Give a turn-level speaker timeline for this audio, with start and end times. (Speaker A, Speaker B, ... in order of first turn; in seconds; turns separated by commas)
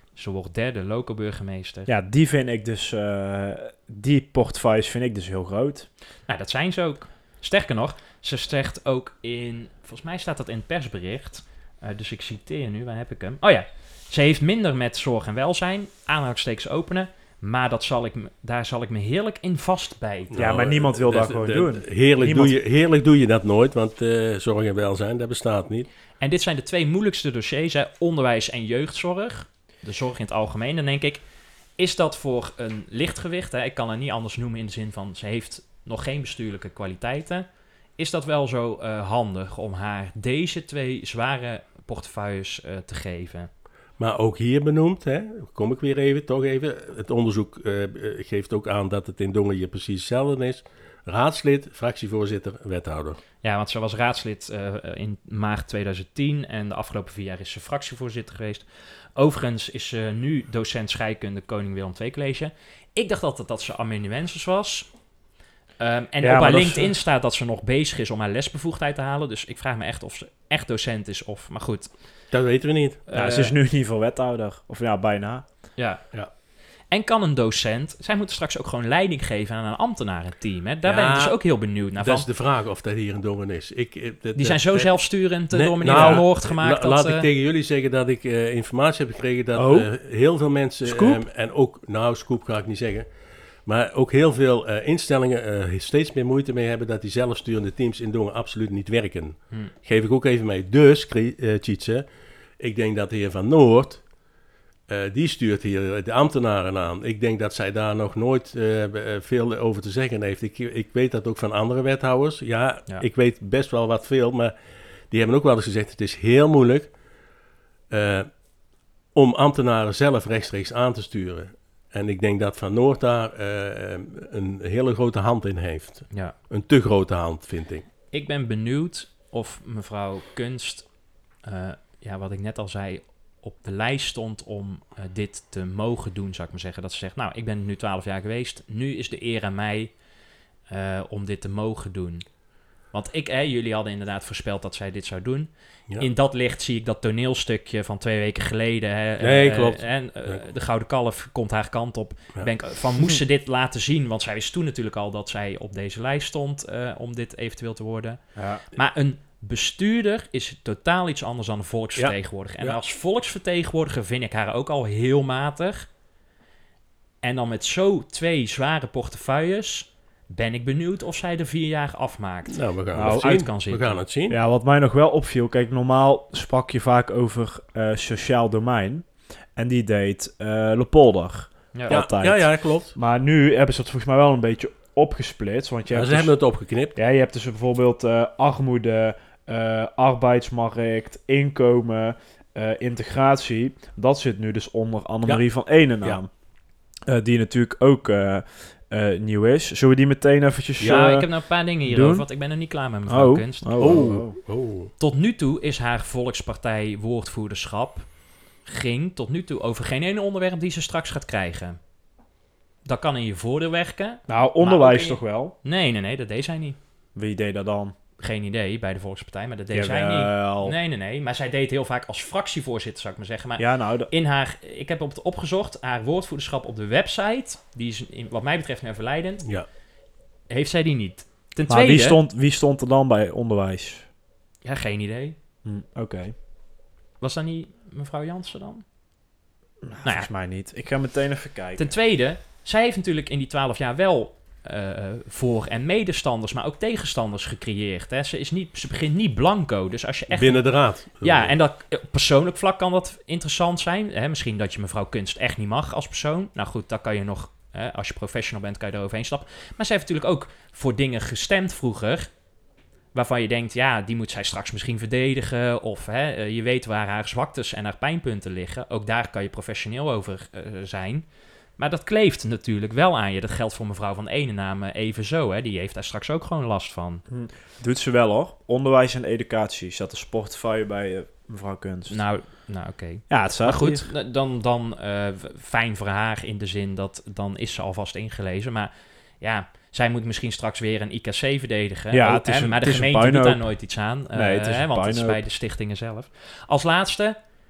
Speaker A: 0.1-1.9, Speaker B: 1.9-5.9, Speaker A: 6.3-20.4, Speaker C: 20.3-25.9, Speaker B: 20.4-22.6, Speaker A: 26.2-31.2, Speaker A: 31.8-37.5, Speaker A: 38.0-43.5, Speaker C: 44.0-53.2, Speaker A: 53.4-64.9, Speaker A: 65.8-71.9, Speaker B: 66.2-66.9, Speaker C: 72.3-73.0, Speaker A: 73.1-73.5, Speaker B: 73.1-75.4, Speaker A: 75.8-76.0, Speaker A: 76.9-82.3, Speaker C: 80.8-102.1, Speaker A: 84.4-87.3, Speaker B: 85.9-86.2, Speaker B: 89.5-89.9, Speaker B: 90.8-91.2, Speaker C: 102.6-104.1, Speaker C: 104.9-114.5, Speaker C: 115.1-117.0, Speaker C: 117.9-118.4, Speaker C: 119.1-127.9, Speaker A: 128.1-140.0, Speaker A: 140.7-142.4, Speaker A: 142.9-165.9, Speaker C: 149.2-150.4, Speaker B: 158.4-158.6, Speaker C: 162.0-162.8, Speaker A: 167.2-174.0, Speaker C: 172.5-174.4, Speaker B: 172.9-173.4, Speaker B: 174.3-186.3, Speaker C: 181.9-182.9, Speaker C: 185.9-187.0, Speaker B: 186.9-196.3, Speaker B: 197.1-202.3, Speaker C: 200.8-201.1, Speaker A: 200.9-203.8, Speaker B: 203.1-204.3, Speaker C: 203.8-204.9, Speaker A: 205.0-208.1, Speaker A: 208.7-211.8, Speaker A: 212.8-216.8, Speaker B: 214.3-215.5, Speaker B: 217.2-217.9, Speaker A: 218.2-229.4, Speaker B: 219.7-220.8, Speaker B: 223.6-224.1, Speaker A: 230.5-232.2, Speaker B: 231.7-234.1, Speaker A: 234.6-235.4, Speaker B: 235.7-236.3, Speaker A: 237.2-238.8, Speaker B: 239.8-242.0, Speaker A: 240.0-240.3, Speaker A: 241.8-262.3, Speaker C: 250.3-251.5, Speaker A: 263.1-271.3, Speaker A: 271.8-277.2, Speaker B: 277.3-282.2, Speaker A: 282.1-297.4, Speaker B: 283.3-284.1, Speaker B: 292.1-293.7, Speaker B: 294.3-295.4